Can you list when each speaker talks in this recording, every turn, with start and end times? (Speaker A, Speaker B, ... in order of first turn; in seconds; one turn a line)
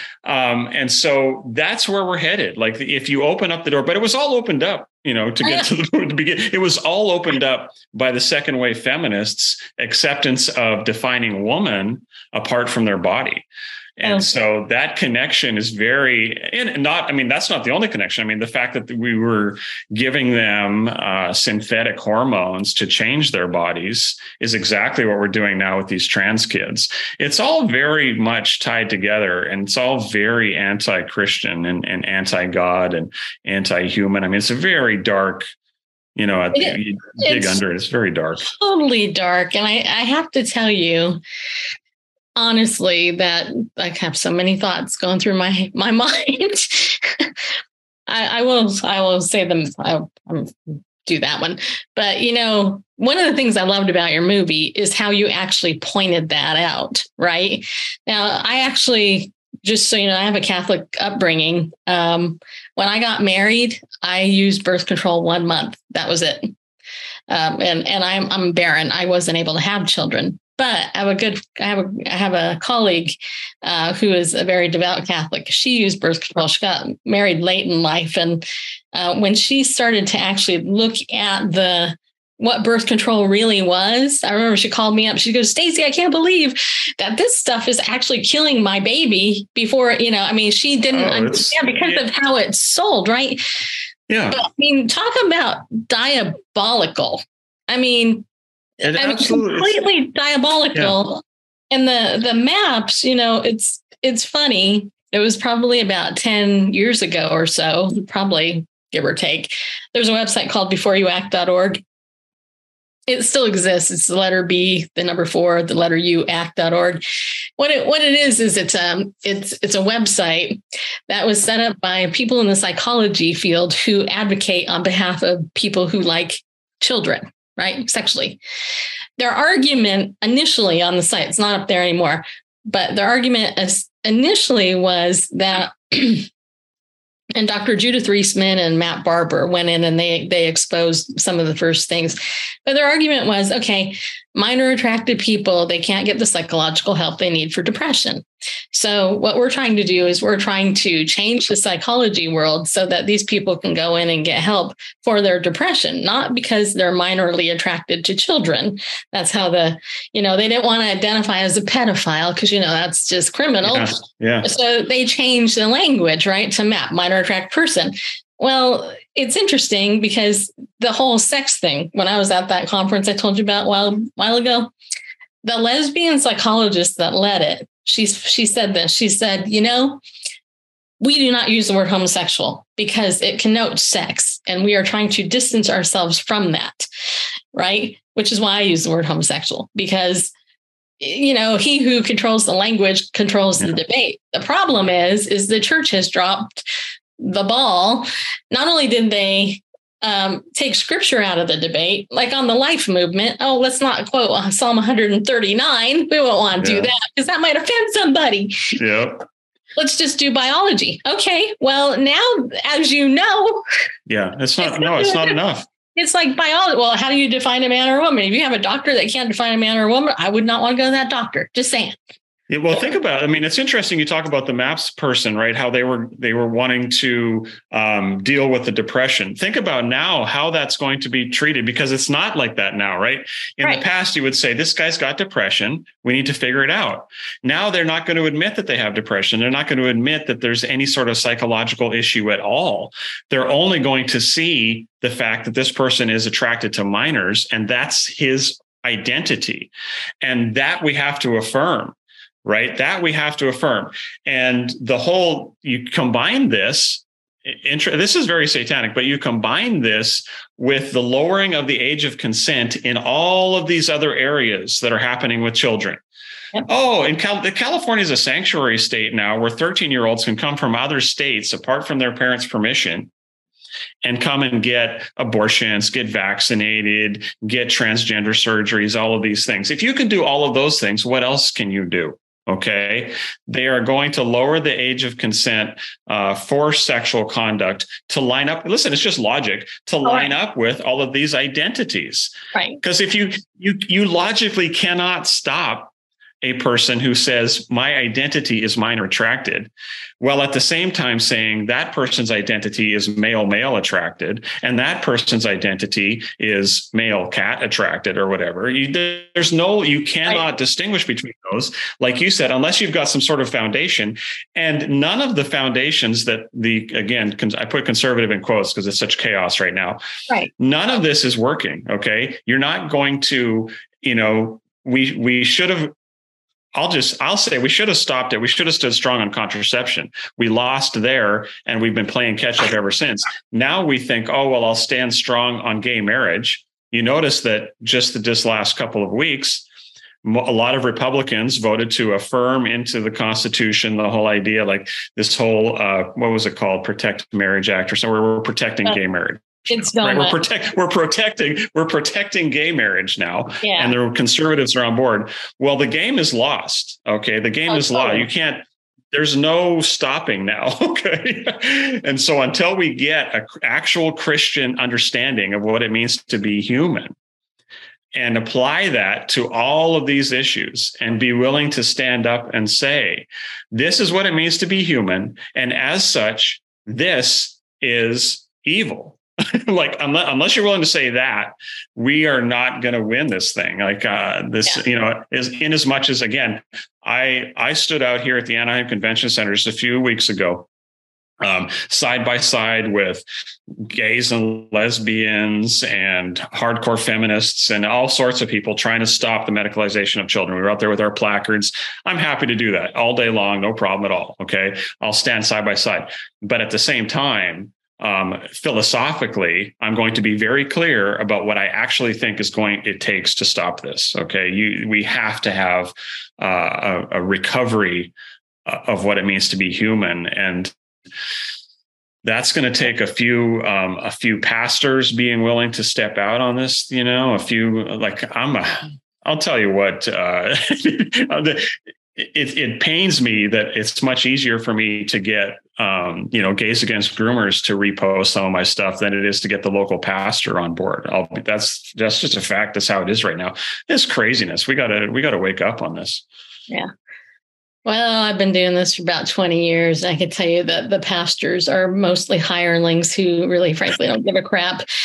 Speaker A: 0.2-13.5
Speaker B: 5.4-5.7
Speaker A: 14.0-35.5
Speaker A: 36.2-38.5
Speaker B: 36.5-37.6
Speaker B: 38.4-41.2
Speaker B: 42.4-47.3
Speaker B: 48.1-66.5
Speaker B: 67.3-93.4
Speaker A: 90.9-92.0
Speaker A: 94.1-94.4
Speaker B: 94.3-98.3
Speaker A: 98.8-99.8
Speaker B: 98.8-111.8
Speaker B: 113.1-117.0
Speaker B: 117.6-128.4
Speaker B: 129.2-136.3
Speaker B: 137.4-163.9
Speaker A: 163.6-164.5
Speaker B: 164.4-174.7
Speaker B: 175.4-180.0
Speaker B: 181.0-186.9
Speaker B: 187.5-190.3
Speaker B: 191.0-196.7
Speaker B: 197.2-208.8
Speaker A: 206.6-206.9
Speaker A: 208.8-209.2
Speaker B: 209.8-213.6
Speaker A: 214.1-215.7
Speaker B: 214.6-215.4
Speaker B: 215.9-222.0
Speaker A: 222.5-249.7
Speaker A: 250.2-266.0
Speaker A: 266.7-273.1
Speaker A: 274.0-320.0
Speaker B: 290.1-290.3
Speaker B: 292.5-292.8
Speaker A: 320.6-325.9
Speaker A: 326.8-339.6
Speaker A: 340.2-367.1
Speaker B: 349.7-350.4
Speaker B: 353.6-353.9
Speaker B: 357.7-358.3
Speaker A: 368.1-390.7
Speaker A: 391.4-418.1
Speaker A: 418.7-420.7
Speaker A: 422.2-446.2
Speaker B: 447.9-454.9